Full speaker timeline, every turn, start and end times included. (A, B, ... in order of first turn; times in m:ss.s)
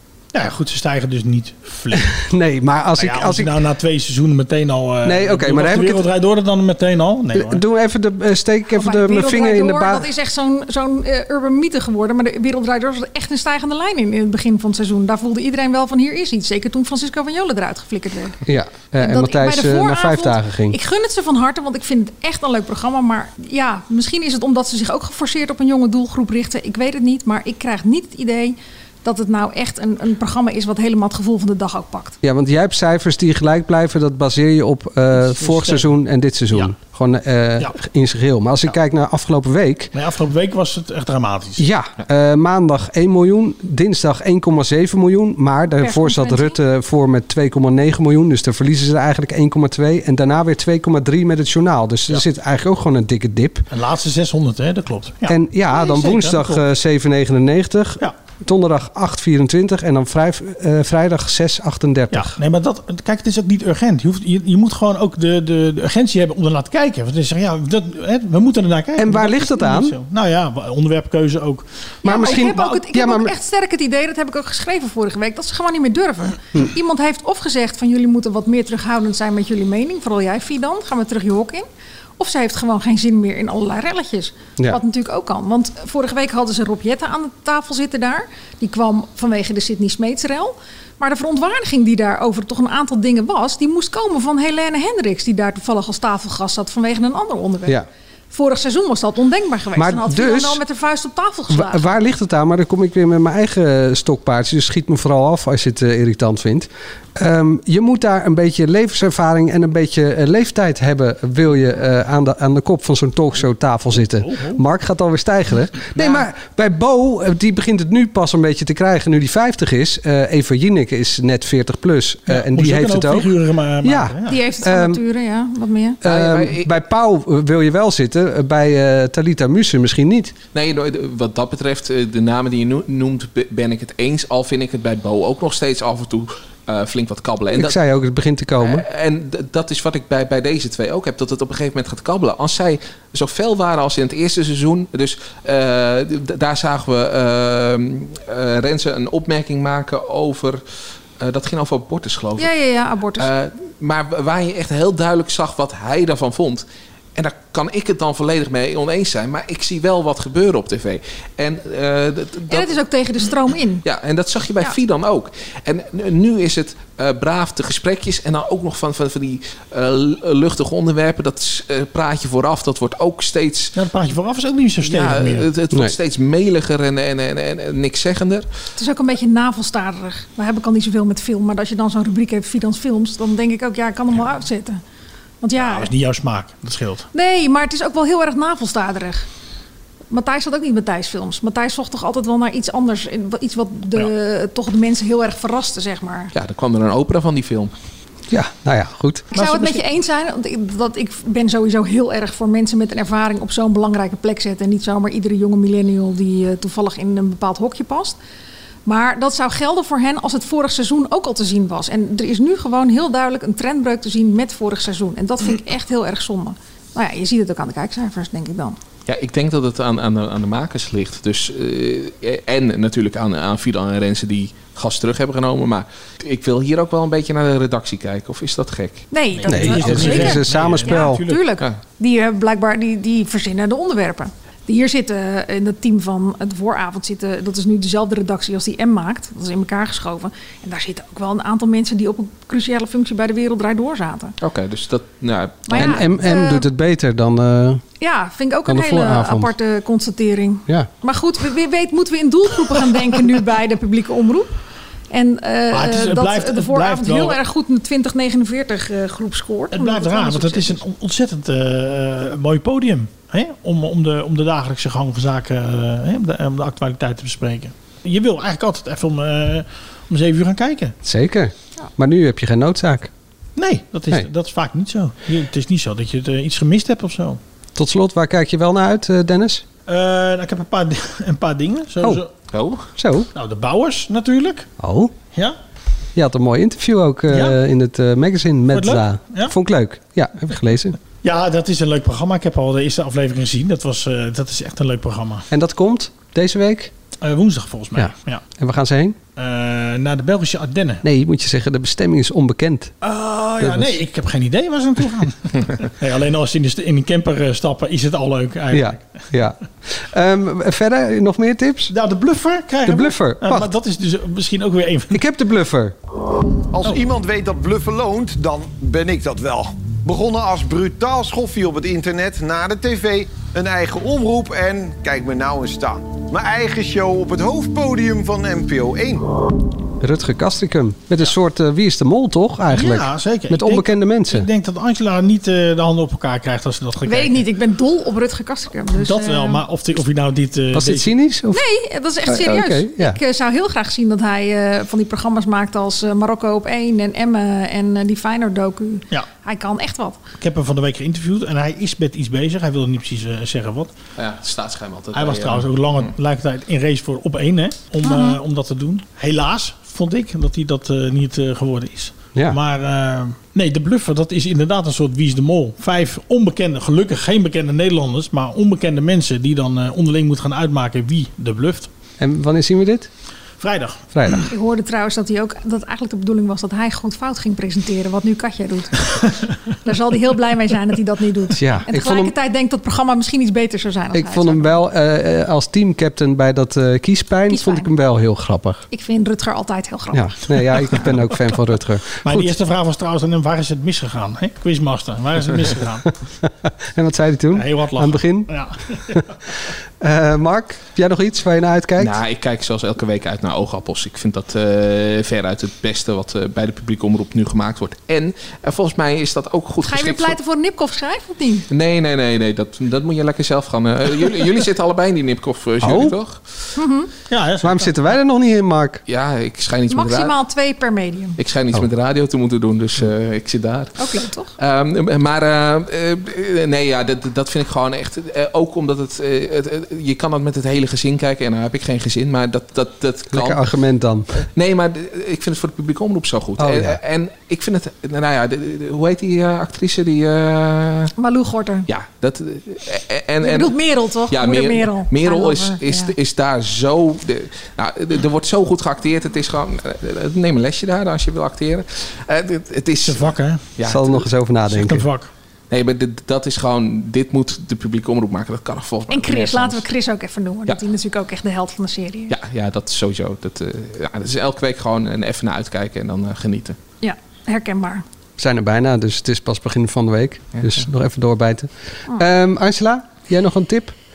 0:00.3-0:02.2 A
0:01.9-0:03.6 B
0:03.0-0:07.6 A
0:05.0-0:06.1 B
0:07.3-0:10.1 B
0:08.7-0:18.4 C
0:18.4-0:20.8 B
0:19.0-0:32.2 C
0:32.2-0:39.9 B
0:35.2-0:35.9 A
0:39.9-0:41.6 A
0:41.6-0:53.7 B
0:45.8-0:46.6 C
0:53.7-0:56.6 A
0:55.3-1:02.4 B
1:02.1-1:12.5 A
1:09.0-1:10.0 B
1:12.0-1:13.3 B
1:12.0-1:21.7 C
1:22.2-1:37.8 C
1:38.3-1:41.9 C
1:39.8-1:40.6 B
1:41.5-2:05.0 B
1:54.2-1:54.6 A
2:02.3-2:04.4 A
2:04.3-2:06.0 C
2:06.0-2:10.3 B
2:06.0-2:06.7 D
2:10.5-2:17.8 D
2:17.5-2:18.9 B
2:18.6-2:30.6 D
2:31.2-2:32.5 D
2:32.4-2:33.3 C
2:33.2-2:42.8 D
2:42.5-2:43.8 C
2:43.8-2:53.8 D
2:53.8-2:55.5 A
2:54.8-2:58.5 D
2:58.8-3:04.8 C
3:05.4-3:05.9 C
3:05.6-3:07.1 A
3:07.1-3:09.3 C
3:10.1-3:16.3 C
3:16.3-3:17.7 D
3:18.3-3:19.3 B
3:19.3-3:19.8 A
3:19.3-3:28.2 C
3:28.9-3:38.8 C
3:39.1-3:49.1 D
3:49.1-4:04.4 C
3:49.4-3:51.4 A
3:49.5-3:51.2 B
4:04.4-4:06.1 D
4:05.7-4:06.7 C
4:05.8-4:07.8 B
4:08.0-4:14.5 C
4:08.7-4:09.5 B
4:15.1-4:20.8 C
4:15.7-4:17.4 A
4:19.7-4:30.9 A
4:31.0-4:33.1 B
4:33.6-4:37.4 A
4:37.8-4:39.6 B
4:39.9-4:42.3 A
4:42.5-4:42.9 D
4:43.0-4:43.3 B
4:43.3-4:44.7 A
4:44.8-4:45.2 B
4:46.2-4:51.0 B
4:47.3-4:47.6 A
4:48.7-4:49.5 A
4:51.2-4:55.5 A
4:55.5-4:56.9 B
4:57.2-4:58.4 A
4:58.0-4:59.2 B
4:59.4-5:01.0 A
5:01.0-5:02.9 B
5:03.0-5:09.3 A
5:03.6-5:04.0 B
5:08.7-5:11.9 B
5:11.9-5:15.2 A
5:12.8-5:13.7 B
5:15.1-5:16.0 B
5:16.7-5:29.2 E
5:30.0-5:34.5 B
5:32.7-5:37.5 A
5:37.0-5:39.6 C
5:38.9-5:41.2 A
5:40.7-5:41.6 B
5:41.5-5:50.2 C
5:42.3-5:43.2 B
5:50.4-5:53.9 A
5:54.2-5:56.1 D
5:55.1-6:11.9 A
5:58.0-5:58.4 C
6:12.2-6:13.1 B
6:13.6-6:14.4 A
6:14.1-6:14.5 B
6:14.5-6:24.8 C
6:21.6-6:22.3 B
6:24.1-6:28.8 B
6:27.5-6:27.9 C
6:28.9-6:31.1 C
6:30.1-6:32.5 B
6:32.2-6:36.1 A
6:36.9-6:39.2 B
6:37.5-6:39.4 A
6:40.0-6:42.2 B
6:42.0-6:50.4 D
6:49.8-6:51.7 C
6:51.7-6:56.7 D
6:55.8-6:56.2 B
6:56.8-6:57.1 C
6:57.3-6:58.0 A
6:57.6-6:59.0 B
6:59.1-7:00.4 D
6:59.9-7:01.4 C
7:01.4-7:13.6 D
7:04.0-7:04.5 C
7:13.3-7:14.3 B
7:14.4-7:21.1 D
7:16.6-7:17.0 B
7:21.2-7:21.9 C
7:21.9-7:34.2 D
7:23.4-7:26.1 C
7:33.0-7:33.7 A
7:33.8-7:35.1 B
7:34.7-7:35.3 A
7:35.7-7:39.8 D
7:39.1-7:42.4 C
7:42.3-7:46.8 D
7:47.0-7:48.0 C
7:48.4-7:53.9 B